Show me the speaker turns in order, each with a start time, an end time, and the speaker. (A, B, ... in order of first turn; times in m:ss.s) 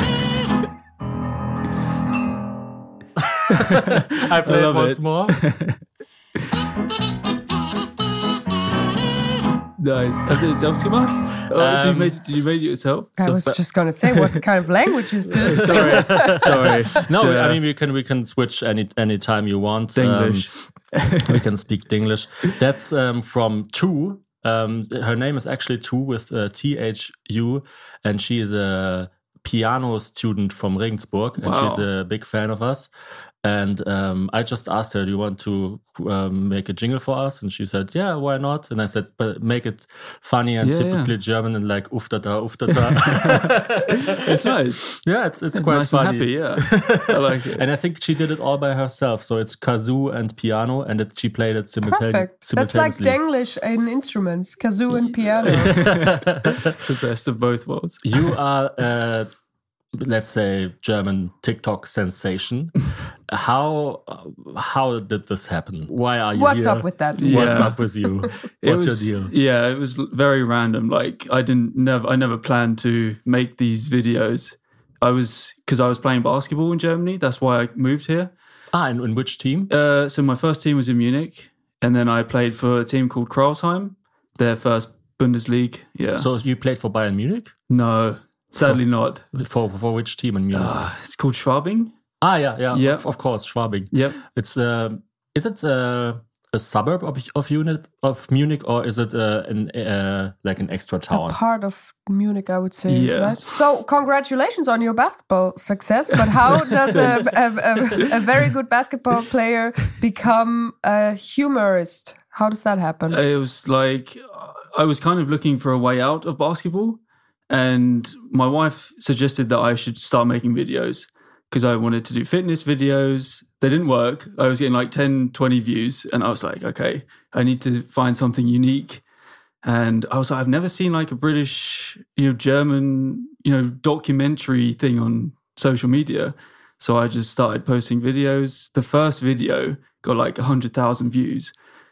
0:03.2-0:05.4 A
0:03.6-0:05.8 B
0:09.8-0:13.5 B
0:11.5-0:12.2 A
0:13.2-0:16.7 C
0:14.1-0:14.4 B
0:15.4-0:17.6 B
0:15.4-0:20.5 A
0:20.0-0:21.4 B
0:21.2-0:32.9 A
0:31.4-0:31.9 B
0:33.4-0:44.1 A
0:40.6-0:41.1 B
0:42.9-0:45.0 B
0:45.0-0:53.2 A
0:45.5-0:47.6 B
0:51.8-0:55.9 C
0:55.4-0:58.4 B
0:55.5-0:56.8 A
0:58.0-0:59.3 A
1:00.0-1:09.3 A
1:06.3-1:08.3 C
1:07.2-1:07.8 B
1:08.6-1:18.3 B
1:18.7-1:19.7 A
1:19.7-1:26.3 B
1:26.1-1:27.5 A
1:27.7-1:29.2 B
1:29.3-1:30.9 A
1:30.5-1:32.0 B
1:32.2-1:41.4 A
1:32.7-1:33.1 B
1:33.9-1:34.2 B
1:41.1-1:53.2 C
1:42.9-1:43.5 B
1:46.6-1:47.3 B
1:46.7-1:48.0 A
1:53.1-2:09.0 B
2:09.6-2:21.5 B